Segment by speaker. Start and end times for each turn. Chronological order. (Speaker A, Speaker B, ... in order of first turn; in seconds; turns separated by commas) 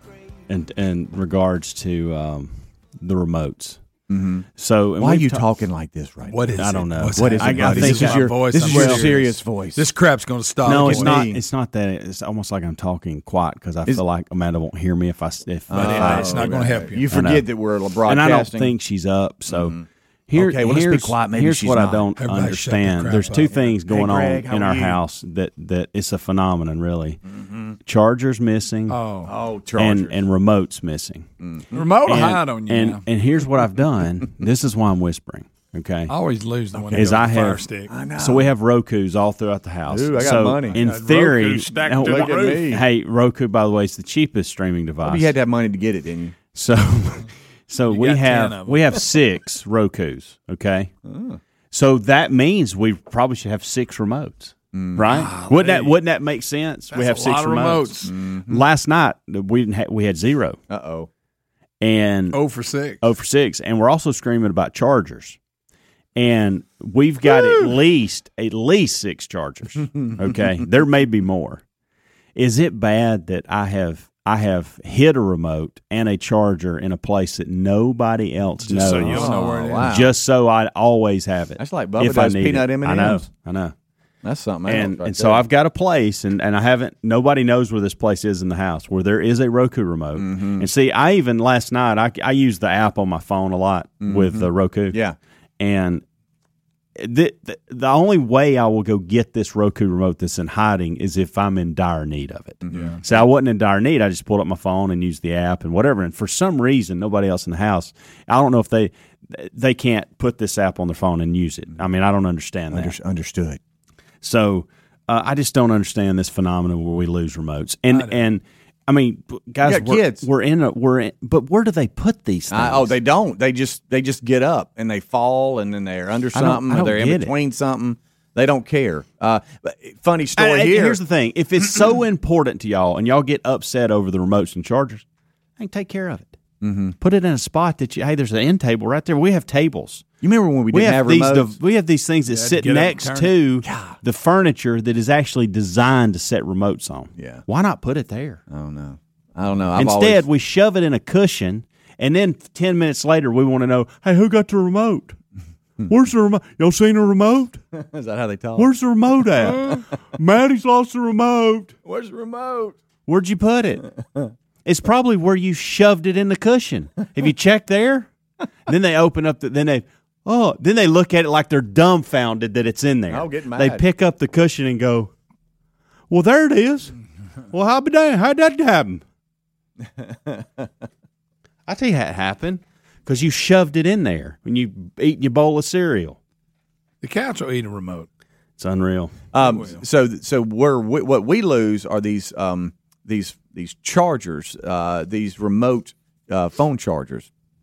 Speaker A: 0.5-3.8, Speaker B: 4.1-6.5, Speaker A: 4.6-5.4, Speaker C: 6.3-11.2, Speaker A: 6.6-9.1, Speaker B: 7.2-9.9, Speaker A: 10.6-16.6, Speaker B: 10.7-11.4, Speaker B: 15.7-18.7, Speaker C: 15.7-17.0, Speaker A: 17.1-17.4, Speaker A: 18.1-19.8, Speaker B: 19.5-19.9, Speaker A: 20.3-27.2, Speaker B: 20.4-22.1, Speaker C: 22.1-23.5, Speaker B: 23.5-25.0, Speaker B: 27.3-27.8, Speaker A: 27.9-29.0, Speaker C: 28.9-29.3, Speaker B: 29.3-30.2, Speaker A: 29.8-31.3, Speaker B: 31.4-31.9, Speaker C: 31.7-33.0, Speaker A: 32.1-36.1, Speaker C: 36.1-37.9, Speaker B: 36.8-37.1, Speaker A: 36.9-37.7, Speaker B: 37.9-38.5, Speaker A: 38.2-45.3, Speaker B: 39.9-40.8, Speaker C: 40.7-42.8, Speaker B: 42.0-42.8, Speaker B: 45.0-46.4, Speaker A: 46.5-50.9, Speaker C: 47.9-49.0, Speaker B: 51.0-51.4, Speaker A: 51.7-60.6, Speaker B: 54.7-55.1, Speaker C: 55.1-56.0, Speaker C: 56.9-58.1, Speaker B: 58.1-58.6, Speaker B: 60.7-61.1, Speaker A: 61.8-62.4, Speaker C: 62.3-63.0, Speaker A: 63.0-65.4, Speaker A: 66.2-71.6, Speaker A: 72.4-83.7, Speaker C: 78.6-79.9, Speaker B: 79.0-80.1, Speaker B: 81.6-83.3, Speaker B: 84.2-85.4, Speaker A: 84.7-95.0, Speaker B: 90.2-90.7, Speaker B: 94.0-95.2, Speaker A: 95.6-96.0, Speaker A: 97.0-112.9, Speaker B: 102.6-103.0, Speaker C: 102.7-103.0, Speaker B: 112.7-113.6, Speaker A: 114.2-122.9, Speaker C: 117.9-118.3, Speaker B: 119.6-120.2, Speaker B: 122.5-131.0, Speaker A: 126.3-127.3, Speaker A: 130.4-135.1, Speaker A: 135.6-136.4, Speaker B: 136.6-136.9, Speaker A: 137.0-140.1, Speaker B: 140.2-141.6, Speaker A: 140.7-148.4, Speaker C: 142.3-143.4, Speaker B: 143.6-143.9, Speaker B: 147.2-147.4, Speaker B: 148.5-150.2, Speaker A: 149.8-155.2, Speaker A: 155.9-157.6, Speaker B: 157.7-158.7, Speaker A: 158.6-161.7, Speaker B: 159.4-159.8, Speaker B: 161.8-162.8, Speaker A: 163.1-163.9, Speaker A: 164.6-168.1, Speaker A: 168.7-175.1, Speaker B: 173.1-173.8, Speaker A: 176.1-176.9, Speaker A: 177.5-179.0, Speaker B: 180.1-180.7, Speaker A: 181.7-186.2, Speaker C: 187.0-188.1, Speaker A: 188.6-189.1, Speaker B: 189.3-197.3, Speaker C: 189.4-189.8